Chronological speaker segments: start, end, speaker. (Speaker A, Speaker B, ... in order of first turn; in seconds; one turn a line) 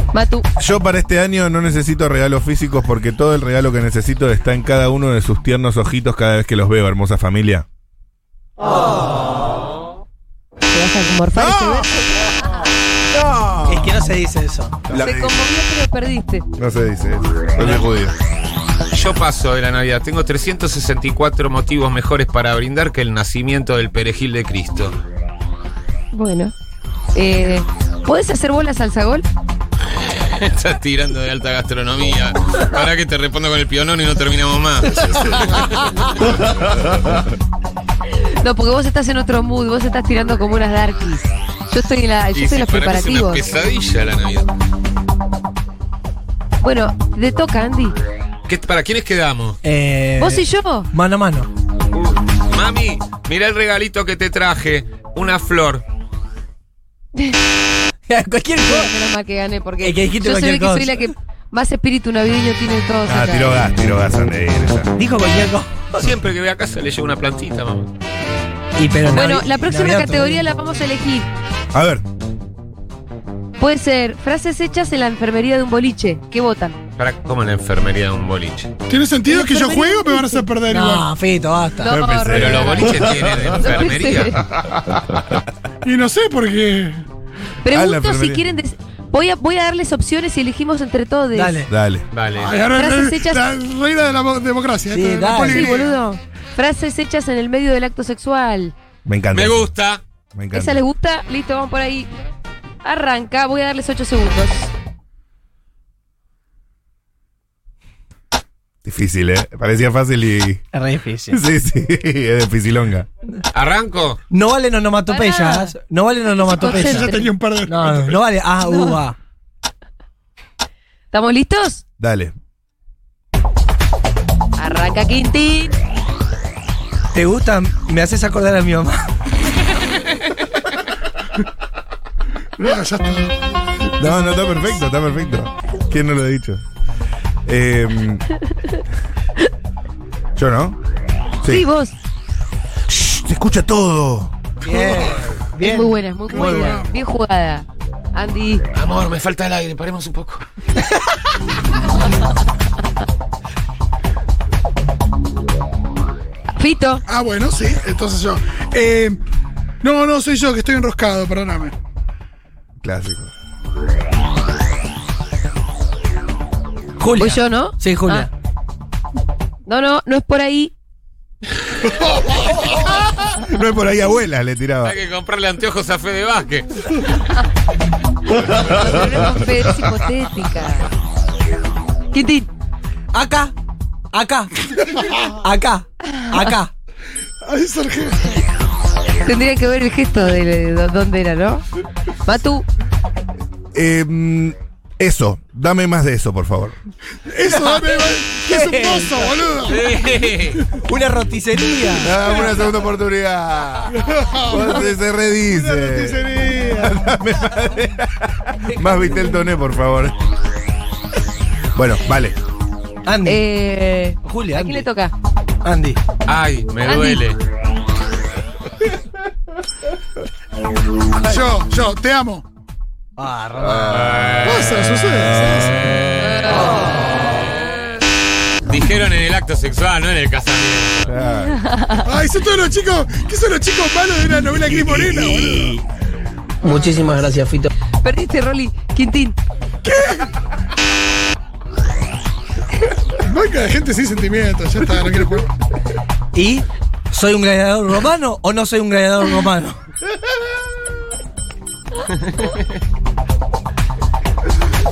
Speaker A: 0.1-0.5
Speaker B: 0.6-7.7
Speaker A: 10.7-12.6
Speaker B: 11.3-12.5
Speaker B: 13.1-13.9
Speaker C: 13.6-14.8
Speaker B: 14.9-15.5
Speaker A: 14.9-16.4
Speaker B: 16.6-18.1
Speaker D: 18.9-25.0
Speaker A: 26.1-26.5
Speaker A: 27.1-29.2
Speaker D: 29.9-36.5
Speaker A: 38.2-43.5
Speaker D: 42.3-44.5
Speaker A: 46.6-48.0
Speaker D: 48.5-49.6
Speaker C: 49.6-51.5
Speaker A: 50.2-50.9
Speaker D: 51.9-55.8
Speaker A: 57.1-57.4
Speaker C: 58.1-58.9
Speaker A: 58.6-63.6
Speaker C: 59.8-61.1
Speaker B: 63.0-64.9
Speaker C: 65.0-66.1
Speaker D: 66.0-67.9
Speaker C: 68.8-70.5
Speaker A: 69.1-71.3
Speaker B: 71.7-72.0
Speaker A: 73.6-76.8
Speaker D: 77.0-78.7
Speaker E: 78.9-81.1
Speaker A: 79.3-80.5
Speaker C: 80.7-82.0
Speaker A: 81.8-84.5
Speaker B: 81.9-83.7
Speaker D: 82.3-84.4
Speaker B: 84.6-85.4
Speaker E: 85.8-87.0
Speaker A: 87.6-91.6
Speaker B: 87.7-88.5
Speaker C: 91.3-91.7
Speaker B: 91.7-92.1
Speaker D: 92.1-92.6
Speaker E: 92.3-96.0
Speaker A: 92.7-93.5
Speaker C: 94.9-95.7
Speaker A: 95.5-98.7
Speaker B: 99.0-99.7
Speaker D: 99.3-100.0
Speaker B: 100.3-100.8
Speaker A: 100.5-102.1
Speaker A: 102.8-104.7
Speaker B: 108.8-110.6
Speaker C: 110.7-111.4
Speaker B: 111.3-113.1
Speaker D: 113.5-114.2
Speaker C: 114.3-117.1
Speaker A: 115.1-115.7
Speaker A: 116.4-117.3
Speaker E: 116.5-118.2
Speaker C: 117.7-119.2
Speaker A: 118.6-119.0
Speaker A: 121.1-121.8
Speaker B: 122.0-122.3
Speaker A: 124.6-125.8
Speaker C: 127.1-129.1
Speaker E: 132.6-133.4
Speaker B: 133.9-136.6
Speaker B: 137.4-138.3
Speaker B: 140.3-140.8
Speaker A: 141.4-141.9
Speaker B: 142.9-144.3
Speaker C: 144.6-146.8
Speaker A: 145.6-148.6
Speaker E: 146.3-146.9
Speaker D: 148.7-150.4
Speaker A: 156.6-157.0
Speaker E: 157.1-159.2
Speaker E: 159.8-161.8
Speaker B: 162.8-163.3
Speaker C: 167.0-168.3
Speaker A: 167.2-168.3
Speaker A: 169.7-170.7
Speaker B: 173.2-174.9
Speaker D: 174.8-177.1
Speaker A: 178.4-180.9
Speaker A: 182.1-182.5
Speaker C: 183.1-183.5
Speaker C: 184.1-186.7
Speaker E: 187.4-188.3
Speaker A: 189.2-191.6
Speaker A: 192.2-192.7
Speaker B: 193.7-196.8
Speaker E: 197.3-200.6
Speaker C: 197.4-199.4
Speaker D: 199.7-200.7
Speaker C: 200.8-202.2
Speaker B: 202.0-210.2
Speaker E: 203.9-204.9
Speaker A: 204.5-204.8
Speaker E: 205.4-207.0
Speaker B: 211.7-212.4
Speaker C: 213.0-213.4
Speaker A: 213.2-215.1
Speaker C: 214.2-214.9
Speaker C: 215.6-216.0
Speaker D: 216.2-217.4
Speaker A: 216.8-217.2
Speaker E: 221.2-222.4
Speaker C: 223.2-224.1
Speaker B: 223.6-224.5
Speaker D: 223.9-224.7
Speaker E: 224.4-225.9
Speaker B: 225.1-225.7
Speaker D: 225.9-226.7
Speaker A: 226.2-227.0
Speaker D: 227.2-227.8
Speaker D: 228.6-231.1
Speaker B: 231.1-231.6
Speaker A: 231.5-232.1
Speaker E: 232.0-235.7
Speaker C: 234.9-235.8
Speaker C: 236.6-237.7
Speaker A: 238.0-239.4
Speaker E: 239.8-240.2
Speaker E: 243.2-245.5
Speaker C: 246.3-249.8